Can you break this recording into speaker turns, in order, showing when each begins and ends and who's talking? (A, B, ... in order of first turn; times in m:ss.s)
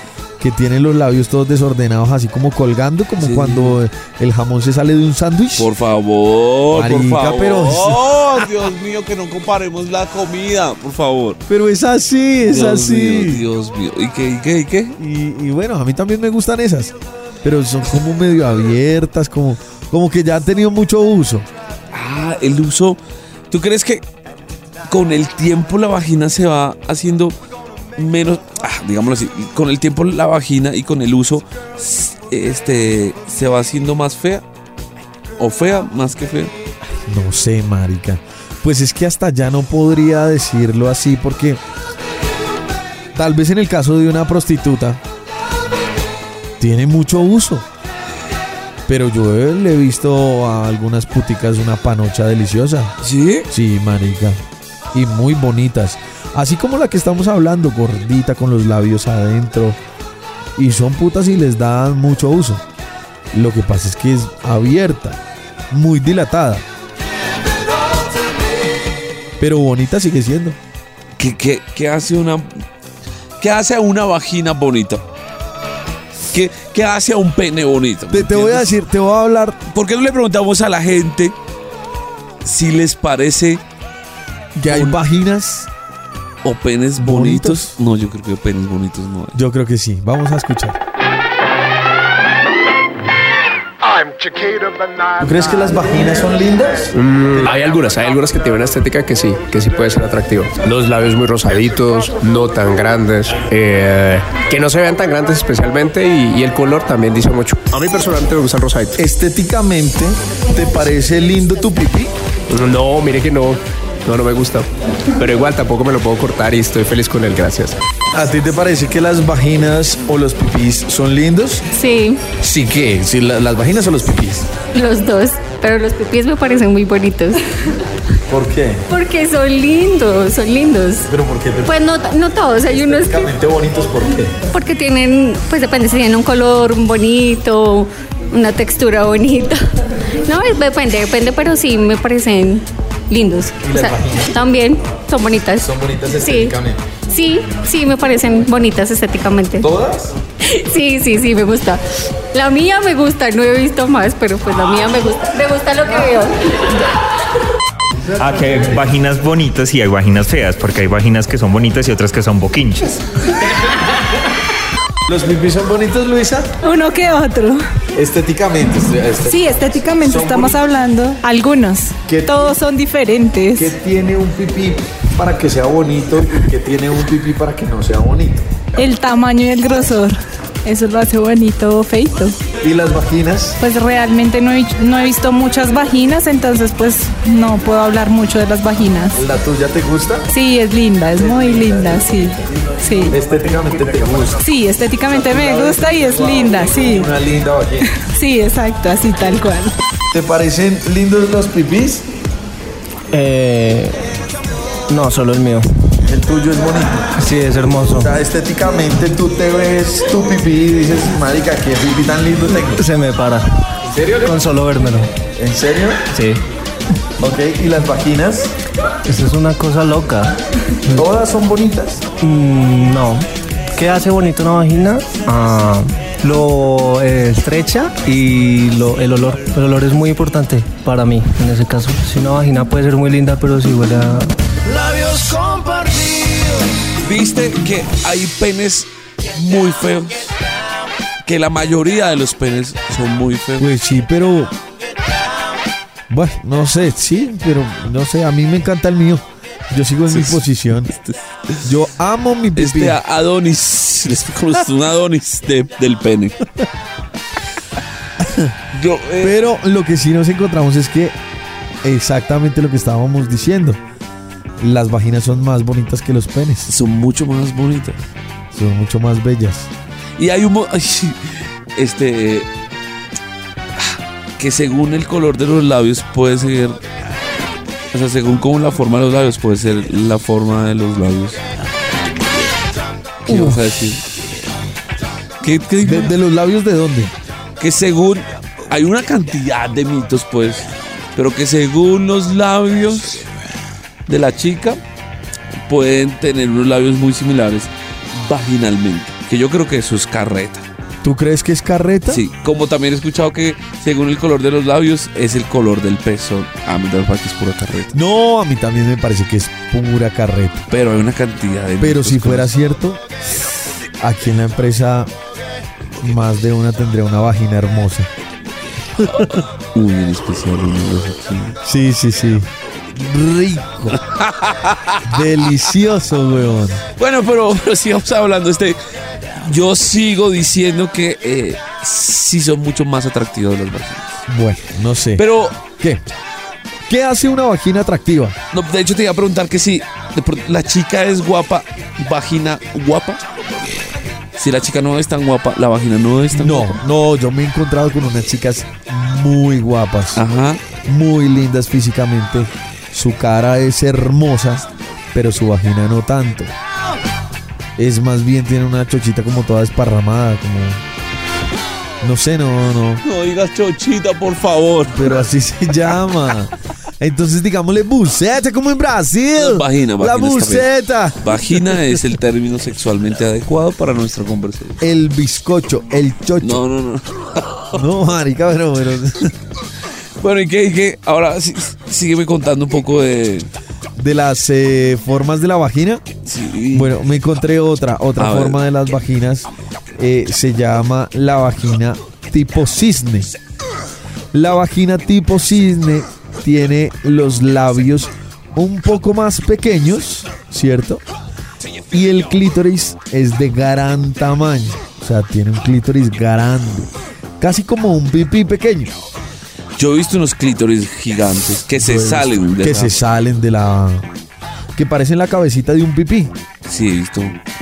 0:00.4-0:05.7 A
0:03.2-0:03.8 B
0:05.6-0:11.4 B
0:06.7-0:08.5 A
0:11.5-0:13.4 A
0:12.4-0:15.0 B
0:15.0-0:21.5 A
0:21.9-0:23.0 B
0:23.5-0:24.0 B
0:24.9-0:27.4 B
0:28.0-0:34.4 B
0:35.4-0:36.5 B
0:37.0-0:41.6 A
0:43.1-0:45.0 A
0:46.6-0:47.6 A
0:48.9-0:53.0 A
0:53.0-0:53.5 B
0:53.5-0:54.4 A
0:54.9-0:59.8 A
1:00.6-1:02.6 A
1:03.3-1:06.6 A
1:09.4-1:10.6 A
1:11.2-1:12.6 B
1:13.4-1:15.0 B
1:16.3-1:18.7 B
1:18.1-1:19.6 A
1:19.7-1:21.4 B
1:22.4-1:23.6 B
1:24.6-1:25.7 A
1:24.7-1:25.0 B
1:26.4-1:29.4 B
1:27.0-1:27.8 A
1:29.3-1:30.8 A
1:35.2-1:36.9 A
1:36.9-1:49.0 C
1:49.0-1:52.1 A
1:52.5-1:57.8 C
1:58.1-2:01.6 A
2:01.7-2:02.2 D
2:02.4-2:04.5 A
2:04.7-2:07.4 D
2:08.3-2:08.8 A
2:08.9-2:11.1 D
2:11.1-2:11.8 A
2:11.6-2:13.3 D
2:12.7-2:14.4 A
2:14.5-2:19.6 D
2:20.2-2:25.7 D
2:23.6-2:24.4 A
2:25.6-2:26.8 A
2:26.2-2:26.5 D
2:27.1-2:29.7 D
2:29.6-2:30.1 A
2:30.4-2:31.8 D
2:32.3-2:36.7 D
2:38.0-2:38.9 A
2:38.2-2:43.0 E
2:45.0-2:46.5 A
2:46.6-2:47.6 F
2:47.9-2:50.6 A
2:49.3-2:53.7 F
2:52.1-2:52.6 A
2:53.6-2:58.5 A
2:58.8-3:02.4 F
3:02.6-3:03.6 A
3:03.6-3:09.2 F
3:09.1-3:10.3 A
3:10.3-3:13.2 F
3:11.2-3:12.4 A
3:13.0-3:14.4 A
3:14.4-3:17.1 F
3:15.1-3:17.9 A
3:17.9-3:19.7 F
3:20.1-3:22.0 A
3:23.1-3:24.1 G
3:24.9-3:25.6 G
3:26.0-3:27.1 A
3:27.2-3:28.1 G
3:27.9-3:32.8 A
3:32.7-3:35.1 G
3:33.9-3:34.3 A
3:35.4-3:36.1 A
3:36.1-3:36.4 G
3:37.2-3:38.5 A
3:39.0-3:41.0 G
3:40.9-3:42.0 A
3:42.2-3:54.3 G
3:54.9-3:56.1 A
3:57.0-4:00.4 B
4:01.2-4:03.7 B
4:03.6-4:04.5 A
4:06.1-4:10.9 A
4:10.1-4:11.7 B
4:11.6-4:13.0 A
4:12.6-4:16.4 B
4:18.2-4:18.5 A
4:18.7-4:19.4 B
4:19.2-4:21.2 A
4:21.8-4:23.8 A
4:24.6-4:26.7 A
4:26.7-4:28.0 B
4:28.5-4:29.7 A
4:30.2-4:32.5 B
4:33.8-4:36.8 B
4:37.9-4:41.4 B
4:43.2-4:44.0 B
4:43.3-4:43.8 A
4:45.4-4:46.1 B
4:45.8-4:47.1 A
4:47.6-4:53.3 B
4:54.1-4:54.8 B
4:55.7-5:00.6 B
5:01.0-5:02.2 A
5:02.1-5:07.9 B
5:07.9-5:10.6 A
5:10.7-5:12.5 B
5:11.8-5:13.0 A
5:14.0-5:15.1 A
5:16.0-5:18.1 A
5:19.0-5:19.4 A
5:19.7-5:21.6 B
5:21.6-5:24.0 A
5:24.0-5:25.2 B
5:25.1-5:26.8 A
5:27.0-5:28.8 B
5:29.4-5:34.2 B
5:34.3-5:35.2 A
5:35.2-5:35.6 B
5:35.8-5:36.0 A
5:36.9-5:38.4 A
5:38.5-5:43.2 B
5:44.4-5:46.8 B
5:46.3-5:50.2 A
5:50.2-5:50.6 B
5:50.9-5:56.5 A
5:57.8-6:00.8 A
6:02.0-6:03.0 A
6:03.0-6:05.2 B
6:04.9-6:11.8 A
6:09.4-6:14.8 B
6:14.8-6:16.6 A
6:16.4-6:17.8 B
6:17.7-6:19.3 A
6:20.2-6:23.5 B
6:24.0-6:26.0 A
6:26.2-6:26.9 B
6:26.7-6:33.3 A
6:28.2-6:28.6 B
6:34.3-6:41.0 A
6:41.9-6:48.9 A
6:49.8-6:53.0 B
6:51.7-6:54.1 A
6:54.8-6:56.3 A
6:56.6-6:57.4 B